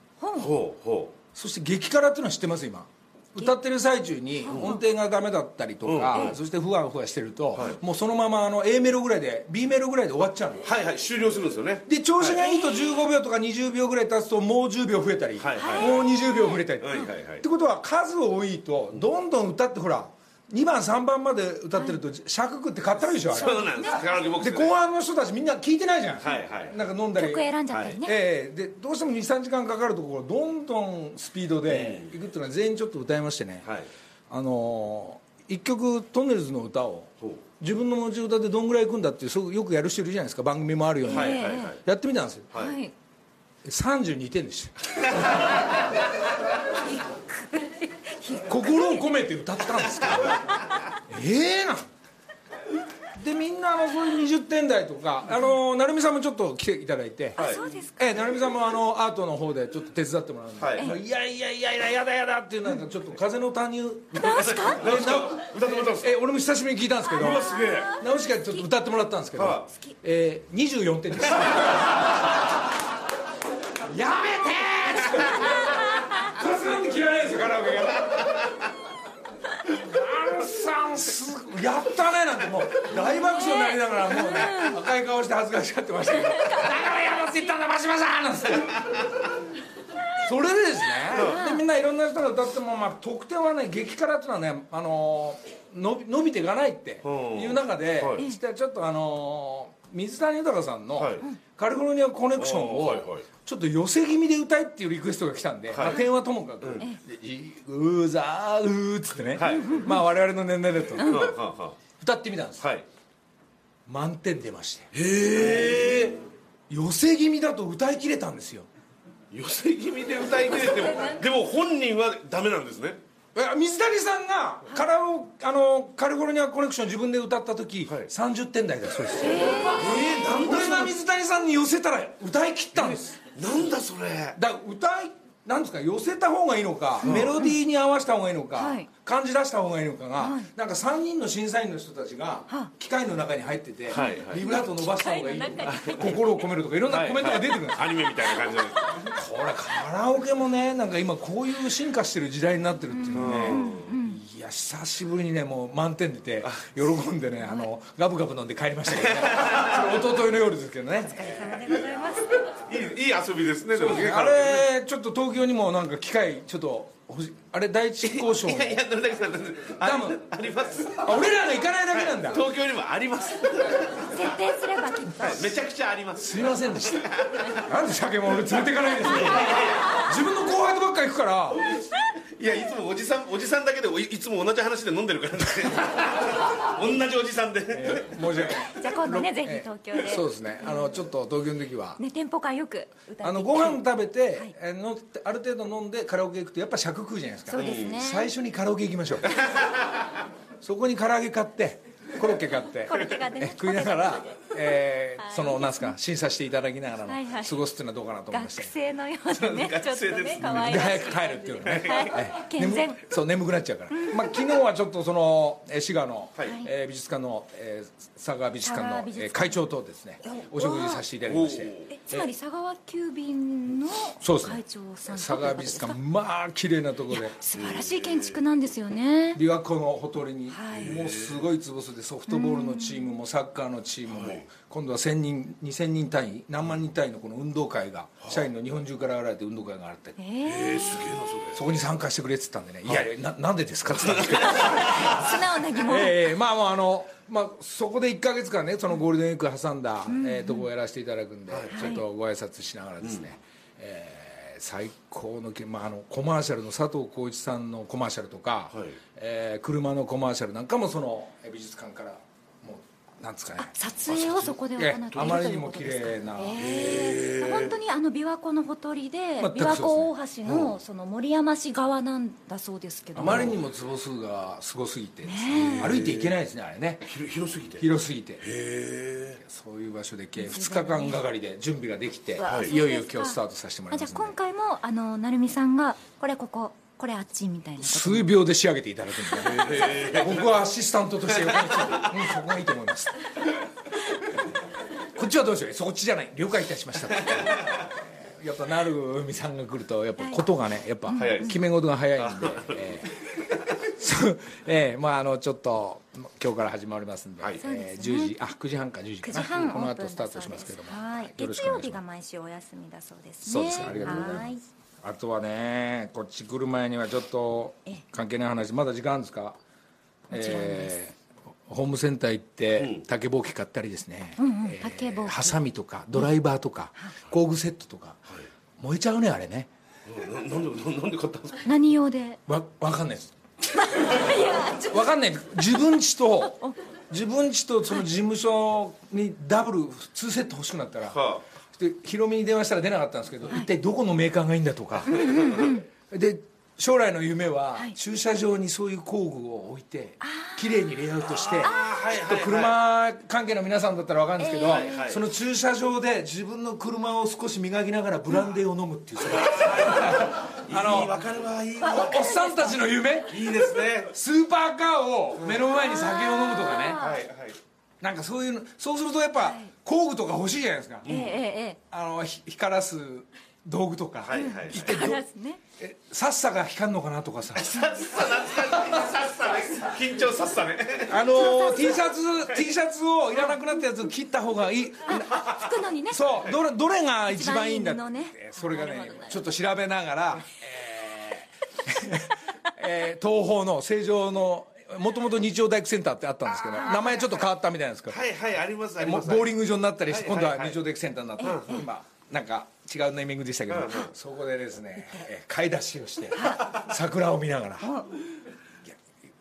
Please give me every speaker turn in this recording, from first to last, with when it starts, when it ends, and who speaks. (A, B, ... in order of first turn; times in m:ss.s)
0:00.2-0:00.5 A
0:00.4-0:01.2 B
0:01.3-0:10.7 C
0:04.4-0:04.8 A
0:04.5-0:04.8 B
0:05.8-0:06.4 B
0:07.5-0:07.8 B
0:10.6-0:12.4 B
0:11.8-0:33.7 C
0:12.4-0:13.0 A
0:15.4-0:16.0 B
0:15.6-0:17.1 A
0:16.8-0:17.4 B
0:23.3-0:24.7 B
0:23.3-0:24.2 A
0:26.2-0:26.7 B
0:27.2-0:28.1 A
0:27.7-0:28.0 B
0:31.7-0:32.1 B
0:33.6-0:33.9 B
0:34.3-0:42.5 C
0:41.0-0:41.8 A
0:41.1-0:41.8 B
0:42.5-0:42.8 B
0:42.5-0:42.9 A
0:43.6-0:44.7 C
0:46.8-0:49.0 A
0:48.4-0:50.4 C
0:51.1-0:51.9 C
0:53.1-0:57.4 C
0:57.4-0:58.2 A
0:57.4-0:57.6 B
0:58.0-1:07.4 C
1:00.6-1:01.0 B
1:04.1-1:04.8 A
1:04.2-1:06.2 B
1:07.1-1:07.9 B
1:07.2-1:08.6 A
1:08.0-1:11.9 C
1:09.3-1:09.7 B
1:13.8-1:18.4 C
1:15.3-1:16.3 A
1:19.6-1:29.0 C
1:22.9-1:24.8 A
1:26.1-1:27.5 A
1:30.2-1:51.2 C
1:31.1-1:31.6 A
1:31.1-1:31.4 B
1:37.0-1:38.2 B
1:41.0-1:41.2 B
1:42.4-1:43.2 B
1:45.7-1:46.0 B
1:49.4-1:49.8 B
1:49.4-1:50.0 A
1:51.0-1:51.3 A
1:51.1-1:51.8 B
1:52.0-1:52.7 C
1:52.6-1:52.8 B
1:53.9-1:54.9 C
1:54.9-1:56.2 B
1:56.7-1:58.7 C
1:59.3-2:03.0 B
2:00.6-2:01.3 A
2:03.3-2:13.2 C
2:09.2-2:10.8 A
2:09.7-2:10.9 B
2:12.8-2:14.4 B
2:14.4-2:27.9 C
2:17.0-2:17.4 B
2:18.5-2:18.9 A
2:20.2-2:20.5 A
2:23.9-2:24.4 B
2:23.9-2:26.3 A
2:25.5-2:26.2 B
2:26.9-2:29.2 B
2:29.1-2:41.6 C
2:32.9-2:34.2 A
2:33.1-2:33.9 B
2:38.9-2:39.8 B
2:41.1-2:42.6 A
2:42.5-2:44.7 B
2:43.7-2:48.8 C
2:48.0-2:51.2 B
2:49.8-2:50.3 C
2:50.9-2:52.4 C
2:51.9-2:54.4 B
2:54.1-2:55.4 A
2:55.2-2:57.6 B
2:56.2-3:01.7 C
2:59.0-3:00.0 B
3:02.3-3:08.5 B
3:07.7-3:12.0 C
3:08.8-3:10.9 A
3:12.0-3:13.8 A
3:13.2-3:19.4 C
3:17.5-3:18.3 A
3:17.6-3:18.0 B
3:19.4-3:20.0 B
3:20.6-3:28.7 C
3:22.9-3:24.5 A
3:25.2-3:25.9 A
3:27.0-3:27.6 A
3:28.3-3:33.0 A
3:29.3-3:32.2 B
3:30.4-3:42.3 C
3:33.9-3:34.4 A
3:36.4-3:36.7 A
3:38.6-3:39.6 A
3:40.2-3:41.0 A
3:41.3-3:41.9 B
3:41.9-3:46.0 A
3:44.2-3:47.3 C
3:47.1-3:49.4 A
3:47.5-3:48.4 B
3:49.3-4:00.2 C
3:50.5-3:51.0 A
3:50.7-3:51.5 B
3:52.3-3:53.1 A
3:54.1-3:54.5 B
4:00.2-4:01.1 A
4:00.4-4:01.7 B
4:01.5-4:26.6 C
4:03.9-4:05.1 B
4:04.7-4:06.3 A
4:10.1-4:10.7 A
4:11.5-4:12.0 B
4:11.7-4:12.0 A
4:18.7-4:19.0 B
4:23.6-4:33.5 A
4:24.1-4:24.5 B
4:25.1-4:25.4 B
4:26.6-4:27.7 B
4:29.4-4:30.1 C
4:30.4-4:30.7 B
4:33.2-4:37.1 C
4:33.2-4:33.6 B
4:35.2-4:35.9 A
4:35.5-4:36.3 B
4:37.0-4:37.9 B
4:37.8-4:38.4 C
4:38.4-4:39.4 B
4:39.4-4:44.3 C
4:40.4-4:41.2 A
4:42.4-4:43.4 A
4:42.4-4:42.7 B
4:43.9-4:48.3 A
4:47.8-4:53.1 C
4:49.4-4:50.5 B
4:51.3-4:52.1 B
4:55.1-5:03.1 C
5:00.2-5:00.4 A
5:01.1-5:01.6 A
5:01.1-5:01.6 B
5:02.2-5:03.1 B
5:04.0-5:12.0 C
5:07.6-5:08.4 A
5:09.2-5:14.6 A
5:13.4-5:14.5 C
5:13.7-5:14.4 B
5:15.0-5:19.6 C
5:20.3-5:28.2 C
5:20.3-5:21.0 A
5:22.8-5:23.0 B
5:24.4-5:25.6 A
5:28.8-5:29.7 C
5:30.0-5:31.7 B
5:31.6-5:32.4 A
5:32.5-5:33.3 C
5:33.7-5:35.1 A
5:34.9-5:36.6 C
5:37.1-5:41.2 C
5:41.1-5:41.4 B
5:41.7-5:45.3 C
5:45.1-5:45.9 A
5:45.2-5:45.6 B
5:46.1-5:51.7 C
5:50.2-5:50.8 A
5:51.2-5:52.8 B
5:51.6-5:51.9 A
5:52.2-6:01.2 C
5:54.4-5:55.0 A
5:54.6-5:55.2 B
5:59.2-6:02.4 B
6:01.8-6:07.0 C
6:02.0-6:02.8 A
6:03.3-6:04.1 B
6:05.7-6:07.2 A
6:07.0-6:07.6 B
6:08.0-6:11.1 C
6:09.4-6:09.7 A
6:11.0-6:11.3 B
6:11.1-6:11.8 A
6:11.9-6:15.2 C
6:14.2-6:15.0 B
6:14.3-6:15.6 A
6:15.8-6:17.7 C
6:17.5-6:22.6 B
6:21.1-6:25.5 C
6:25.1-6:26.5 A
6:26.1-6:38.2 C
6:27.3-6:29.5 A
6:36.7-6:37.4 A
6:38.1-6:39.5 B
6:39.0-6:47.9 C
6:40.1-6:40.8 B
6:41.4-6:41.8 B
6:41.4-6:41.8 A
6:43.7-6:44.1 B
6:46.3-6:46.8 A
6:47.8-6:48.1 A